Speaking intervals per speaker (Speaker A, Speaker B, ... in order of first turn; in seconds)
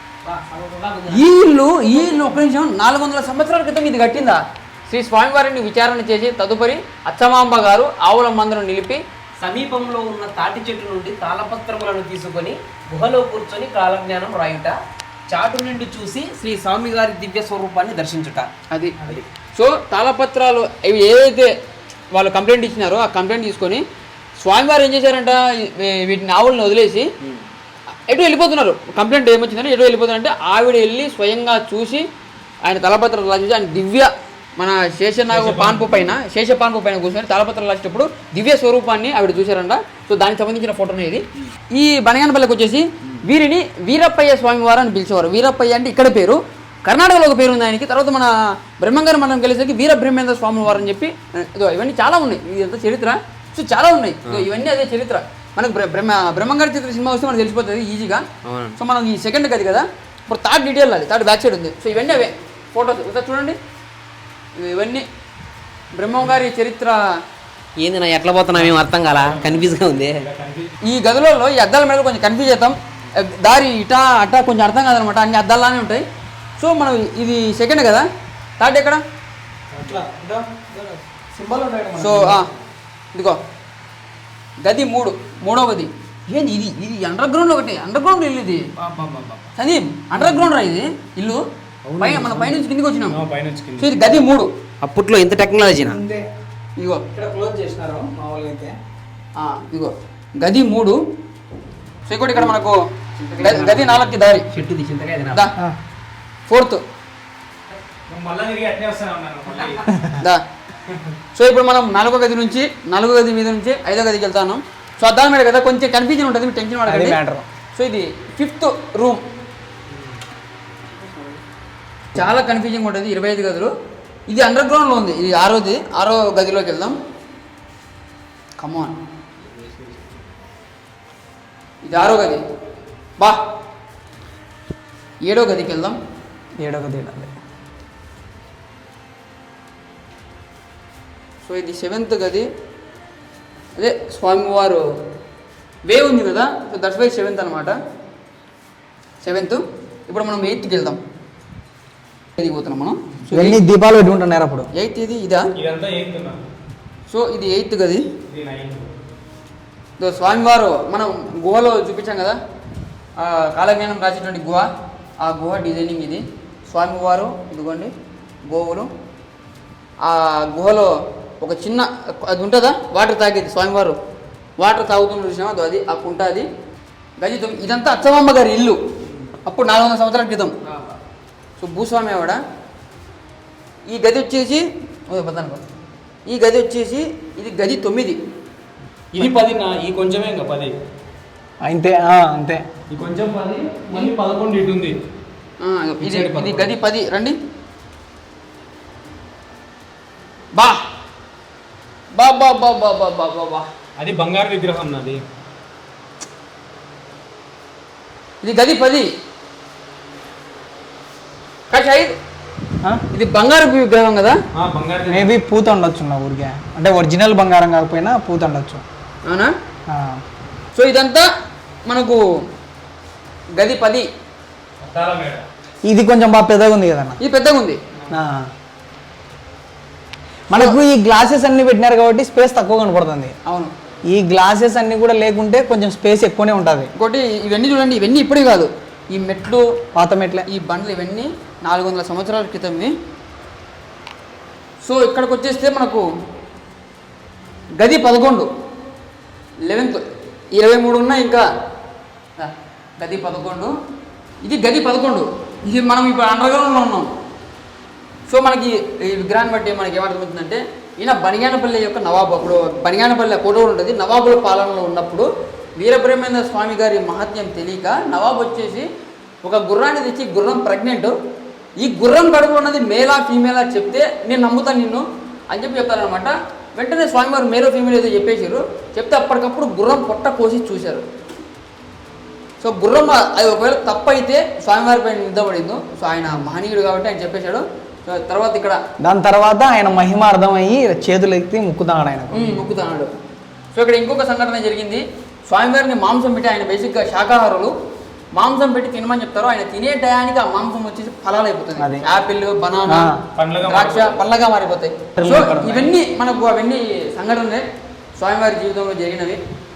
Speaker A: 0.2-1.2, 1.9-2.3, 9.4-18.5, 58.4-58.8, 67.8-70.2, 88.8-89.4, 94.8-96.0, 103.2-105.4, 121.1-121.4
Speaker B: 1.1-9.0, 18.7-19.0, 19.5-21.5, 22.1-23.8, 24.4-27.1, 28.1-32.0, 32.6-58.2, 58.8-63.6, 64.5-65.0, 65.9-67.0, 70.8-76.0, 76.6-78.1, 78.6-79.0, 82.0-82.5, 84.6-88.7, 89.5-91.4, 92.0-93.2, 93.8-94.5, 96.8-97.0, 99.4-101.0, 102.1-102.8, 103.4-104.5, 106.5-106.8, 110.2-110.4, 111.3-117.2, 117.7-119.2, 122.1-123.7, 124.3-127.0, 128.6-128.9, 131.8-132.4, 135.2-136.0, 141.4-142.5, 143.8-144.8, 145.8-147.8, 149.2-151.0, 152.4-153.6, 154.7-155.5, 157.1-158.1, 160.0-162.3, 163.2-164.7, 165.2-167.9, 168.5-168.9, 170.0-174.0, 174.6-176.4, 177.2-178.8, 179.4-180.6, 181.6-182.4, 183.8-185.6, 186.2-188.2, 195.6-197.3, 202.1-203.7, 208.4-209.1, 211.7-212.1, 213.1-214.4, 219.2-219.5, 220.7-221.3, 221.8-222.2, 223.6-224.1, 227.2-227.8, 230.5-230.8, 233.4-233.7, 236.9-239.7, 240.4-242.9, 244.8-246.1, 247.8-248.5, 249.7-250.0, 250.5-251.4, 252.4-253.7, 254.4-257.1, 258.3-268.9, 269.4-271.1, 271.8-281.0, 282.6-288.8, 292.3-293.1, 293.7-297.7, 298.3-307.6, 308.1-309.4
Speaker C: 35.3-36.1, 68.5-70.7, 79.7-80.0, 91.8-92.6, 93.1-94.1, 108.1-109.9, 129.5-130.0, 155.6-156.4, 158.3-158.9, 189.1-190.7, 192.9-195.0, 196.0-196.7, 204.0-205.2, 214.5-215.3, 224.8-225.5, 303.3-304.2
Speaker D: 79.8-82.4, 95.8-96.2, 97.1-98.8, 116.8-117.4, 136.6-137.3, 153.3-154.7, 191.6-192.6, 215.1-218.8, 219.9-220.2, 225.9-227.2, 228.1-228.5, 230.5-233.3, 234.1-236.9, 239.9-240.5, 289.0-292.6, 301.8-302.1, 302.9-303.2, 305.2-305.9